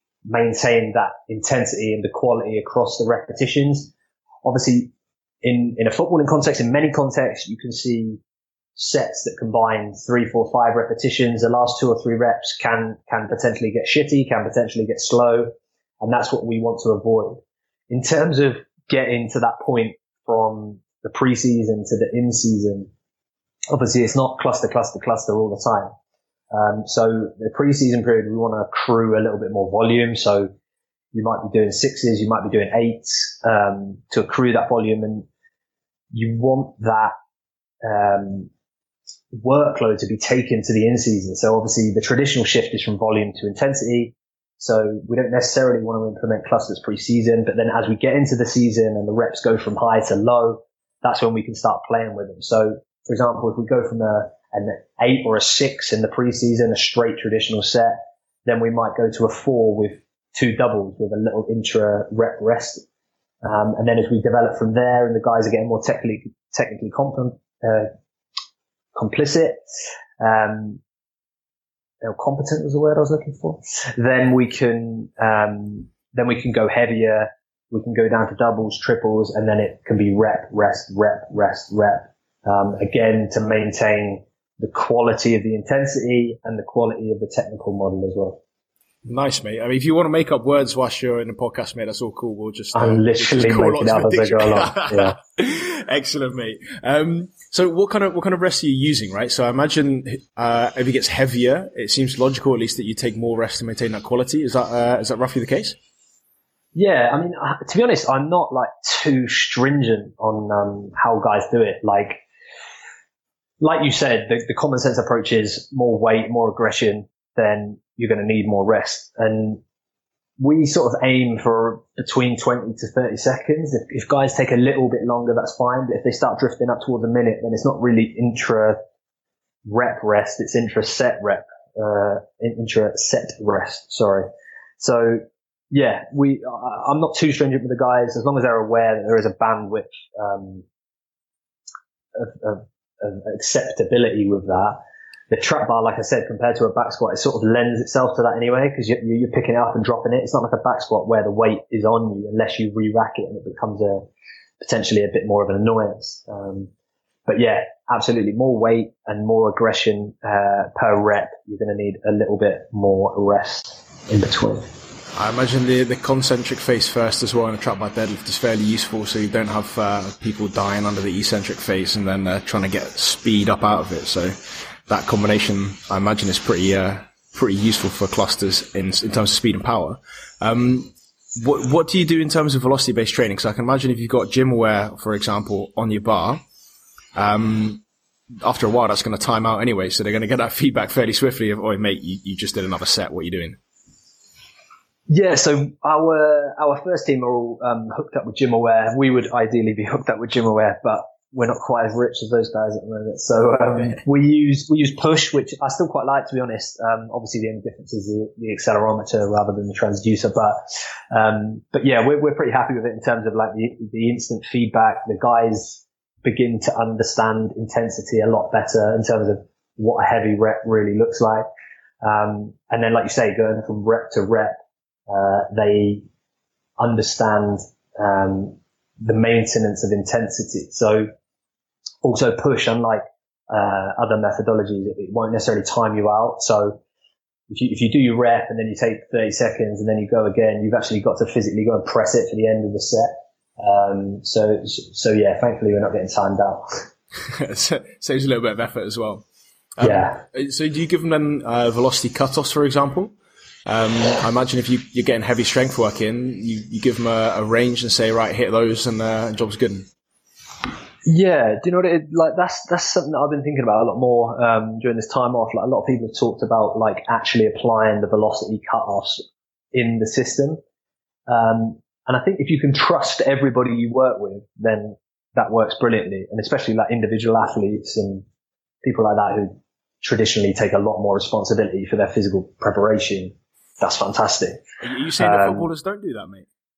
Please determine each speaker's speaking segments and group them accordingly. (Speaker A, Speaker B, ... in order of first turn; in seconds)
Speaker A: 0.3-3.9, 4.4-8.2, 8.8-22.9, 23.7-25.9, 26.5-30.5, 31.1-35.3, 36.1-37.1, 37.8-38.5, 39.4-62.8, 63.4-67.9, 68.9-69.6, 70.2-70.8, 72.0-88.4, 92.7-95.2, 106.7-112.2, 113.6-119.6, 120.4-128.8, 129.6-134.3, 134.8-140.6, 142.1-144.8, 145.3-154.1, 154.6-156.7, 157.3-164.7, 195.1-210.6, 211.1-221.4, 222.0-224.6, 225.1-226.1, 226.8-231.1, 232.0-236.8, 237.5-246.8, 249.8-250.2, 261.0-270.6, 271.3-278.2, 278.8-284.6, 285.2-285.7
Speaker B: 89.0-105.8, 165.1-174.3, 174.9-186.4, 187.1-187.8, 188.4-193.6, 247.3-249.2, 249.8-253.1, 253.7-259.9, 284.8-286.5